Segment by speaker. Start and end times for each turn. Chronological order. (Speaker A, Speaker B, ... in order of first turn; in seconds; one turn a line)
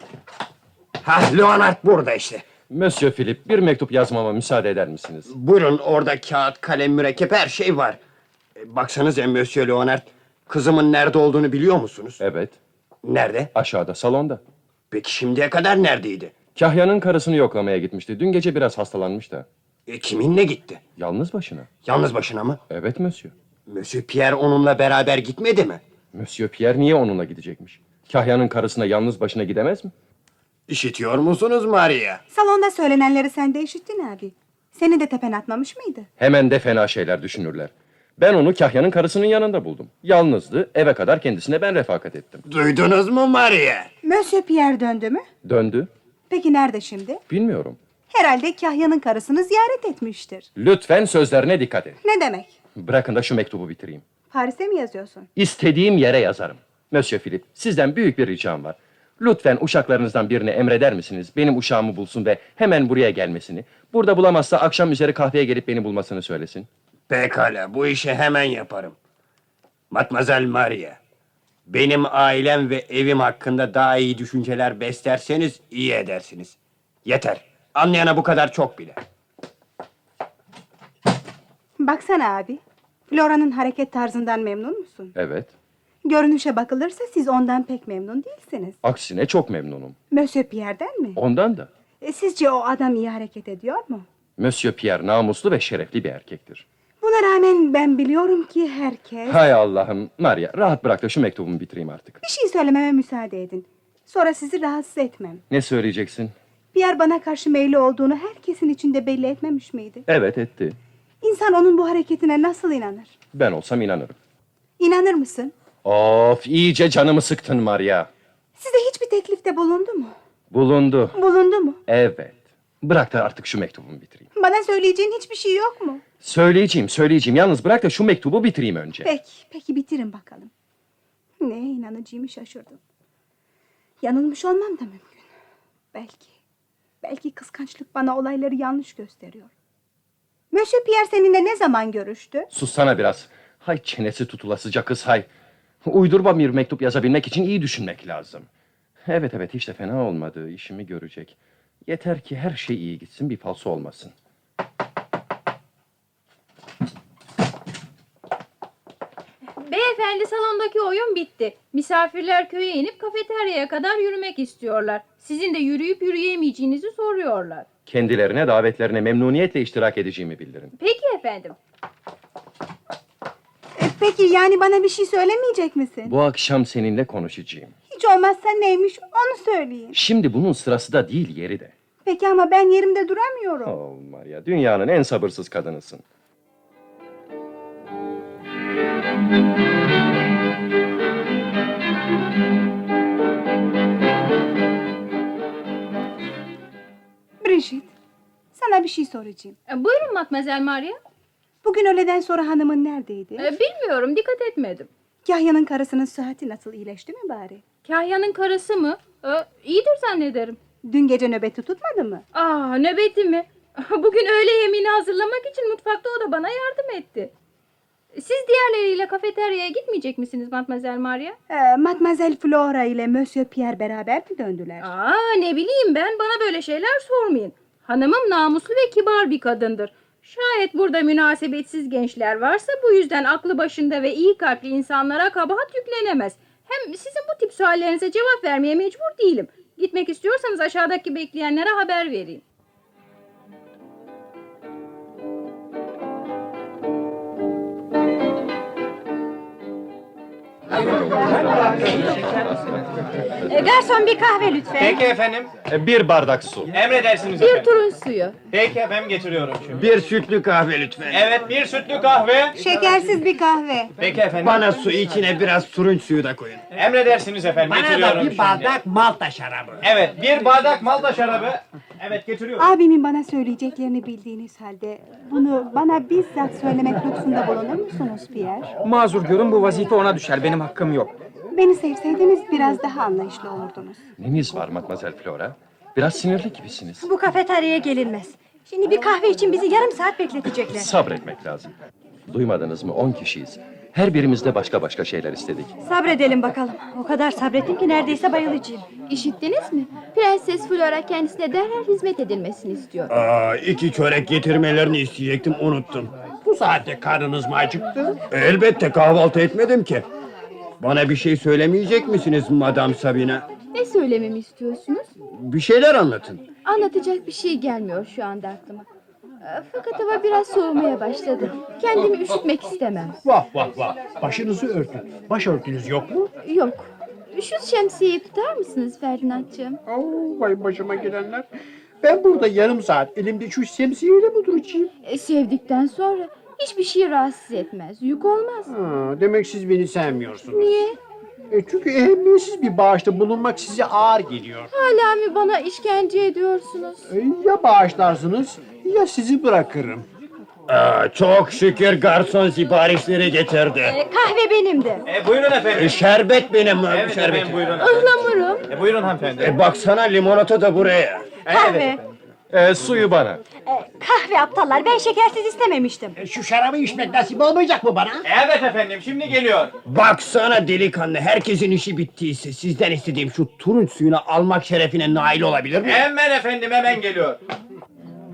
Speaker A: 1.0-2.4
Speaker B: 2.7-5.3
Speaker A: 5.3-8.0
Speaker A: 8.6-12.2
Speaker B: 12.2-12.6
Speaker A: 13.0-13.5
Speaker B: 13.5-14.4
Speaker A: 14.9-16.4
Speaker B: 16.5-19.5
Speaker A: 19.9-20.8
Speaker B: 21.0-21.7
Speaker A: 21.8-22.6
Speaker B: 22.7-23.3
Speaker A: 23.7-25.8
Speaker B: 26.1-29.9
Speaker A: 30.7-32.2
Speaker C: 32.3-36.1
Speaker B: 36.2-42.4
Speaker A: 42.5-43.9
Speaker C: 44.0-45.3
Speaker B: 45.4-45.9
Speaker C: 46.3-47.2
Speaker B: 47.3-47.8
Speaker C: 48.1-50.5
Speaker B: 50.5-52.0
Speaker C: 52.0-52.5
Speaker B: 52.7-54.0
Speaker C: 54.3-55.3
Speaker B: 55.3-66.7
Speaker A: 67.1-69.0
Speaker A: 69.9-71.0
Speaker A: 71.7-79.0
Speaker C: 81.8-85.1
Speaker B: 85.1-85.5
Speaker C: 86.0-88.8
Speaker B: 88.8-90.0
Speaker C: 90.1-91.2
Speaker B: 91.1-91.7
Speaker C: 92.0-94.0
Speaker B: 94.4-96.6
Speaker C: 97.0-99.4
Speaker B: 99.3-102.2
Speaker C: 102.2-105.4
Speaker B: 105.5-106.3
Speaker C: 106.7-110.0
Speaker B: 110.0-110.8
Speaker C: 111.2-113.2
Speaker B: 113.3-114.2
Speaker C: 114.8-115.5
Speaker B: 115.8-118.1
Speaker C: 118.6-120.1
Speaker B: 120.5-121.2
Speaker C: 121.1-121.8
Speaker B: 121.9-124.3
Speaker C: 124.3-126.0
Speaker B: 126.2-129.1
Speaker C: 129.0-130.5
Speaker C: 131.4-132.8
Speaker C: 134.0-135.3
Speaker C: 135.9-136.3
Speaker C: 137.0-139.5
Speaker C: 140.5-142.5
Speaker B: 142.5-145.3
Speaker B: 145.8-148.5
Speaker B: 149.1-154.1
Speaker D: 159.6-167.7
Speaker B: 167.8-170.7
Speaker D: 170.8-171.6
Speaker C: 173.8-176.1
Speaker B: 176.0-177.7
Speaker C: 177.9-179.9
Speaker B: 179.9-181.7
Speaker C: 182.0-183.8
Speaker B: 183.6-186.0
Speaker C: 197.4-197.9
Speaker C: 198.5-199.6
Speaker D: 199.7-201.0
Speaker C: 201.6-203.5
Speaker D: 203.4-204.9
Speaker C: 205.2-207.6
Speaker D: 207.8-210.6
Speaker C: 210.8-212.2
Speaker D: 212.3-217.3
Speaker D: 218.1-221.4
Speaker C: 221.5-224.9
Speaker D: 224.8-242.4
Speaker E: 253.4-255.1
Speaker F: 254.8-255.6
Speaker B: 255.7-256.7
Speaker F: 256.7-257.7
Speaker G: 257.4-258.4
Speaker F: 258.5-259.8
Speaker A: 259.7-261.2
Speaker F: 261.1-262.6
Speaker C: 262.6-263.9
Speaker F: 264.0-264.6
Speaker A: 264.4-266.6
Speaker F: 266.7-268.7
Speaker H: 267.6-269.8
Speaker F: 269.8-272.7
Speaker C: 272.6-278.7
Speaker I: 278.8-281.2
Speaker C: 281.5-284.0
Speaker B: 284.2-287.1
Speaker E: 287.0-290.9
Speaker B: 290.7-291.7
Speaker B: 292.3-295.7
Speaker E: 295.8-298.9
Speaker D: 299.1-303.1
Speaker G: 300.1-302.8
Speaker A: 303.1-306.1
Speaker H: 306.4-308.2
Speaker A: 308.3-310.0
Speaker A: 310.8-313.5
Speaker G: 313.7-315.0
Speaker A: 315.3-316.4
Speaker G: 316.7-318.8
Speaker G: 319.4-323.2
Speaker H: 323.2-326.3
Speaker G: 326.4-329.8
Speaker H: 329.9-331.5
Speaker H: 332.0-334.9
Speaker G: 335.0-338.7
Speaker H: 338.7-340.8
Speaker G: 340.5-340.9
Speaker H: 341.5-344.7
Speaker G: 344.7-347.0
Speaker H: 347.1-350.1
Speaker A: 350.7-353.9
Speaker E: 353.8-355.1
Speaker F: 355.1-356.1
Speaker A: 355.7-357.8
Speaker F: 356.9-358.1
Speaker G: 357.9-358.4
Speaker D: 357.9-358.6
Speaker F: 358.7-359.5
Speaker A: 359.4-361.4
Speaker F: 361.4-361.9
Speaker E: 361.5-362.0
Speaker B: 362.5-363.4
Speaker E: 363.6-366.1
Speaker H: 366.2-368.2
Speaker F: 368.2-369.7
Speaker A: 369.9-376.1
Speaker F: 375.8-377.4